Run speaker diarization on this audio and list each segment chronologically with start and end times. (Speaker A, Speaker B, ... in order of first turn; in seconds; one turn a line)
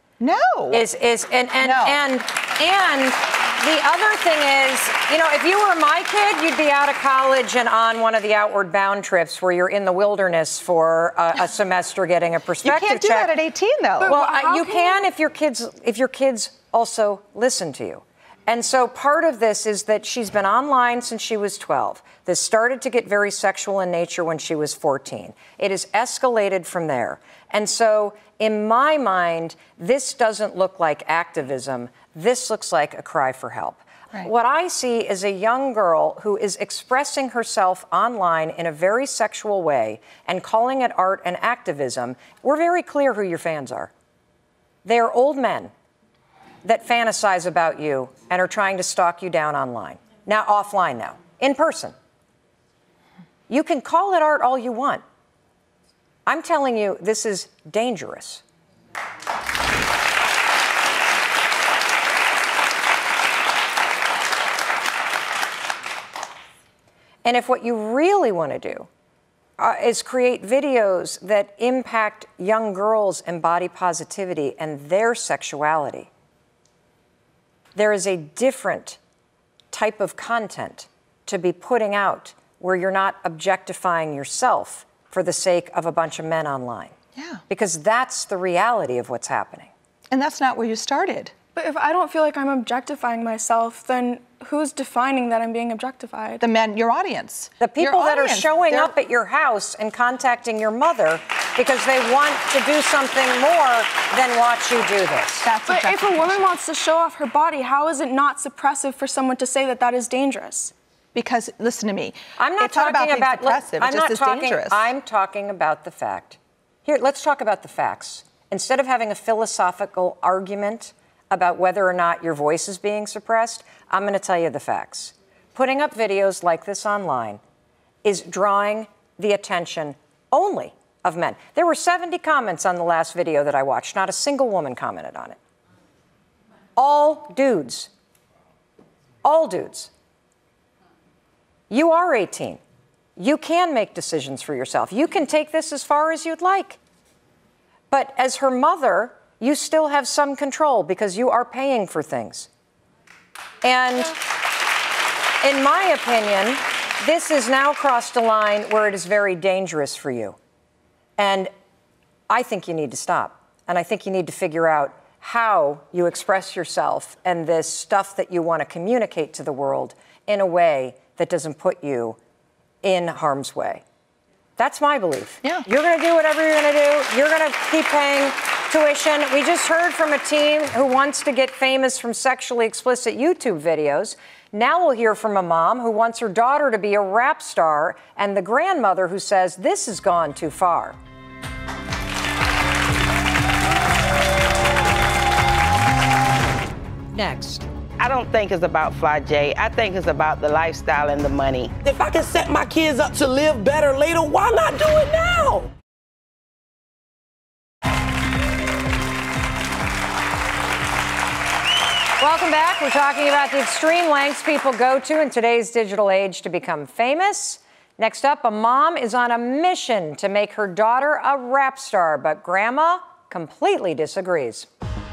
Speaker A: 0.2-0.8
Speaker B: 0.7-13.3
Speaker A: 1.6-2.0
Speaker A: 12.6-14.1
Speaker C: 14.0-15.1
Speaker B: 14.0-43.9
Speaker B: 44.9-45.7
Speaker B: 46.6-51.9
Speaker B: 53.5-55.0
Speaker B: 56.3-58.4
Speaker B: 67.2-68.9
Speaker B: 69.6-76.1
Speaker B: 77.8-79.0
Speaker B: 79.7-86.9
Speaker A: 87.2-87.4
Speaker B: 87.5-89.7
Speaker A: 90.1-91.3
Speaker C: 91.6-96.4
Speaker A: 96.4-98.9
Speaker B: 97.6-105.5
Speaker A: 105.5-106.2
Speaker C: 105.7-110.7
Speaker A: 111.2-114.9
Speaker B: 112.4-127.4
Speaker B: 128.0-135.4
Speaker B: 136.8-137.9
Speaker B: 139.2-139.9
Speaker B: 141.7-142.6
Speaker B: 143.2-146.8
Speaker B: 147.9-152.5
Speaker B: 153.6-154.2
Speaker B: 155.4-160.4
Speaker B: 161.2-161.5
Speaker B: 162.3-172.2
Speaker B: 172.8-173.8
Speaker B: 174.6-191.0
Speaker B: 197.1-197.6
Speaker D: 198.0-201.7
Speaker E: 201.8-205.7
Speaker B: 212.2-224.7